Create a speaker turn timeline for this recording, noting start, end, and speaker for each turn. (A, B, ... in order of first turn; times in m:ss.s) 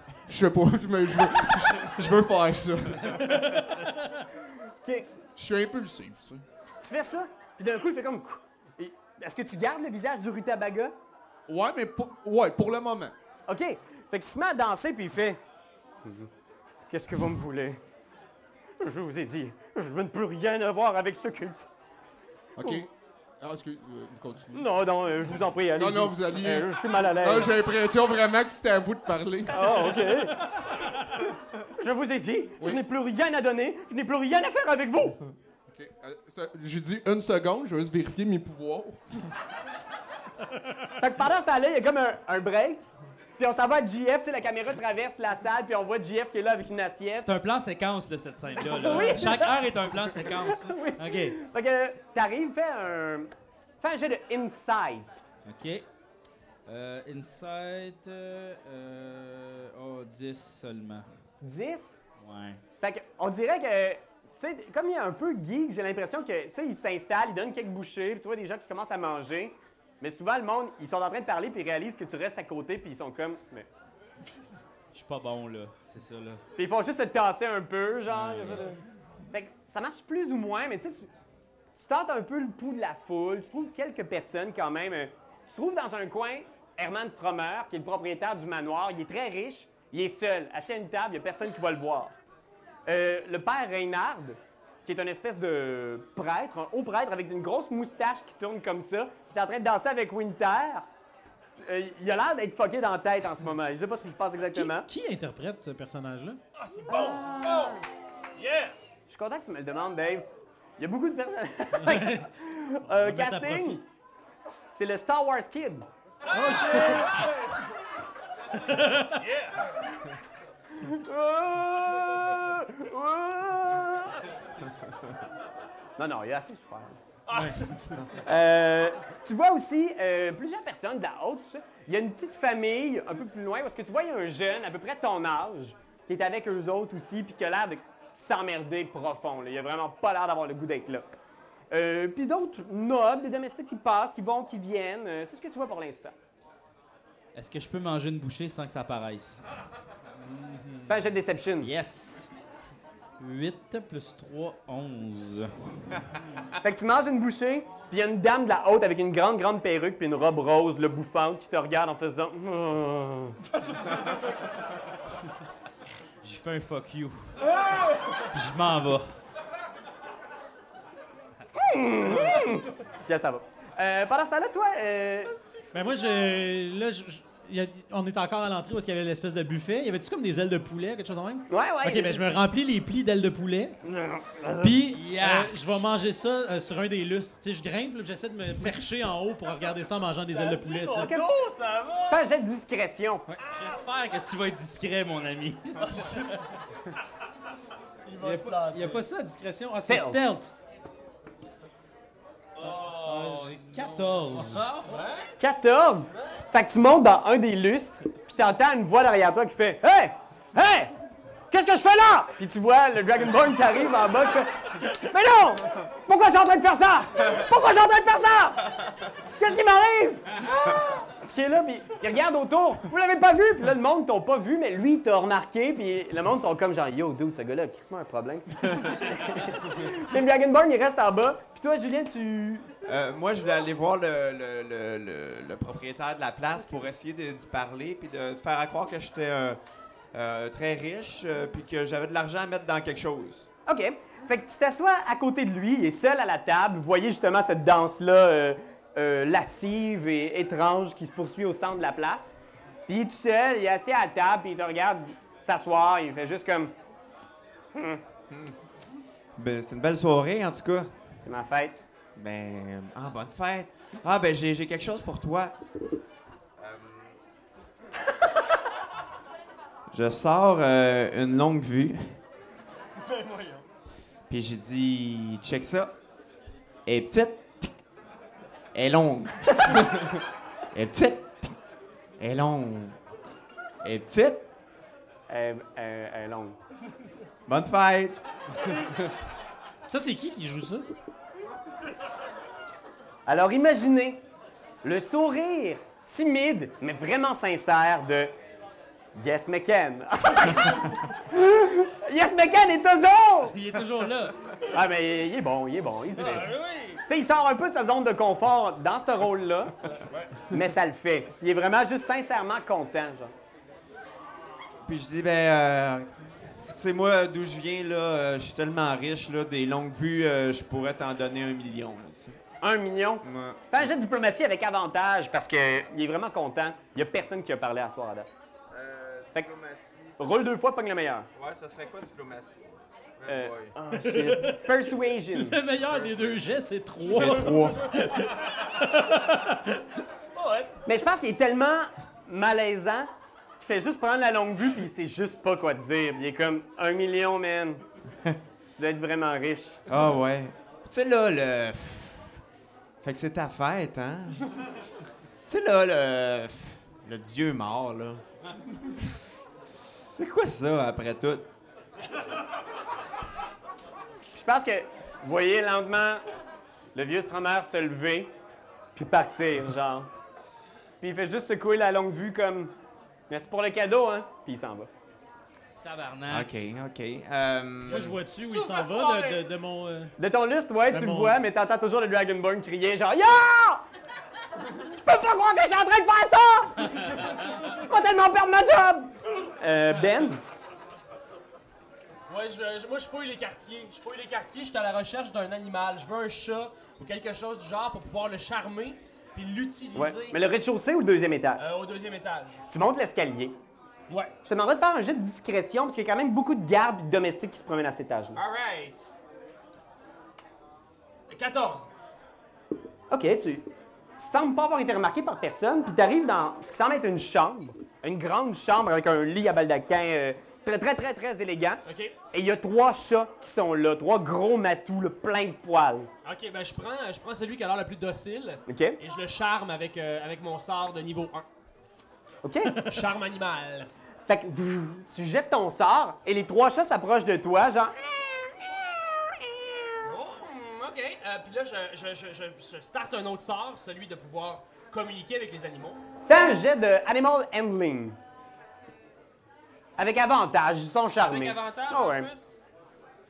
0:00.3-0:03.8 A
0:05.4-0:06.4 A
0:06.8-0:10.9 B
0:11.5-0:13.1 A
0:13.5-0:15.4 B
0:16.0-0:16.3 B
0:16.9-0:17.8 B
0:18.8-0:21.7 B
0:22.6-0:22.9 A
0:23.4-0:24.7 A
0:24.5-0:27.5 B
0:25.8-0:30.2 A
0:29.5-0:30.4 B
0:31.8-0:35.2 B
0:35.7-0:39.0 A
0:41.0-0:42.8 B
0:43.4-0:47.4 B
0:47.2-0:51.4 C
0:48.7-0:49.6 B
0:48.8-0:49.6 D
0:50.2-0:55.1 B
0:55.5-0:55.8 C
0:56.6-1:01.0 C
1:01.4-1:02.0 B
1:02.2-1:02.6 C
1:02.8-1:13.7 B
1:14.9-1:16.4 C
1:16.6-1:18.8 B
1:18.1-1:18.7 C
1:19.3-1:21.1 B
1:21.8-1:32.2 B
1:32.8-1:40.9 B
1:41.6-1:44.9 B
1:44.5-1:46.4 E
1:46.5-1:47.8 D
1:46.9-1:47.8 B
1:48.4-1:48.8 D
1:49.1-1:50.3 B
1:50.8-1:53.8 B
1:51.8-1:52.3 E
1:52.9-1:53.8 E
1:54.7-1:55.9 B
1:56.3-1:57.5 D
1:56.3-1:57.4 E
1:58.5-1:59.2 E
1:59.2-1:59.8 D
2:00.8-2:04.3 B
2:06.0-2:07.0 B
2:07.3-2:08.0 D
2:08.1-2:21.0 B
2:21.7-2:26.1 B
2:27.3-2:29.4 C
2:30.4-2:30.8 E
2:30.9-2:31.7 B
2:31.6-2:32.3 C
2:33.2-2:36.1 C
2:36.6-2:43.4 B
2:46.2-2:47.5 C
2:48.3-2:49.1 C
2:51.5-2:55.3 B
2:55.7-3:03.8 E
3:01.5-3:02.2 B
3:03.8-3:04.8 B
3:04.6-3:11.2 E
3:04.9-3:05.6 C
3:10.3-3:12.3 D
3:11.0-3:11.3 B
3:12.1-3:13.3 B
3:13.5-3:16.3 C
3:15.9-3:16.3 D
3:18.0-3:19.0 D
3:18.2-3:20.5 E
3:19.8-3:20.2 B
3:22.6-3:23.3 D
3:22.6-3:24.6 E
3:23.0-3:24.8 C
3:24.6-3:25.3 D
3:25.4-3:30.9 B
3:31.5-3:38.7 B
3:39.3-3:52.7 B
3:52.8-3:59.6 F
4:00.1-4:03.5 F
4:03.7-4:16.7 B
4:17.7-4:18.0 B
4:18.3-4:18.5 F
4:19.4-4:20.9 F
4:21.2-4:21.8 B
4:22.2-4:25.6 F
4:26.6-4:27.1 F
4:29.9-4:32.2 F
4:33.0-4:33.6 D
4:34.3-4:35.9 F
4:36.8-4:37.7 F
4:38.7-4:41.5 F
4:42.2-4:43.0 F
4:43.8-4:44.5 F
4:45.3-4:46.6 B
4:47.5-4:49.1 F
4:49.9-4:50.9 E
4:53.2-4:54.2 B
4:54.8-4:58.3 B
4:59.1-5:03.6 B
5:03.5-5:04.4 C
5:04.6-5:06.5 B
5:06.1-5:07.0 D
5:07.1-5:13.3 B
5:10.1-5:10.4 D
5:14.8-5:22.4 F
5:22.6-5:28.3 B
5:23.2-5:23.8 F
5:28.7-5:30.2 F
5:30.2-5:31.3 B
5:31.3-5:33.7 F
5:33.3-5:35.6 B
5:33.9-5:34.8 E
5:35.3-5:39.8 E
5:35.8-5:37.9 F
5:37.1-5:37.9 D
5:40.3-5:40.8 D
5:40.8-5:47.8 B
5:48.7-5:49.8 B
5:49.9-5:52.4 F
5:53.0-5:54.5 F
5:55.5-5:58.2 F
5:58.8-6:01.5 F
6:04.3-6:06.2 B
6:07.0-6:08.3 B
6:09.0-6:10.1 B
6:11.0-6:12.7 B
6:13.3-6:14.9 B
6:15.8-6:16.5 C
6:16.3-6:18.2 F
6:17.8-6:20.1 E
6:18.4-6:19.4 D
6:20.2-6:23.8 B
6:20.9-6:21.3 E
6:24.7-6:30.4 B
6:32.3-6:40.4 D
6:39.9-6:41.7 B
6:41.6-6:42.6 D
6:42.7-6:43.6 B
6:44.4-6:48.4 B
6:48.3-6:49.1 D
6:51.3-6:51.9 D
6:53.1-6:53.6 B
6:54.2-7:06.1 B
7:01.8-7:02.1 D
7:06.2-7:11.5 D
7:08.7-7:09.0 B
7:12.4-7:12.8 B
7:12.8-7:13.9 D
7:14.3-7:20.0 B
7:20.0-7:26.0 D
7:26.3-7:28.2 B
7:30.0-7:32.3 B
7:31.2-7:32.6 D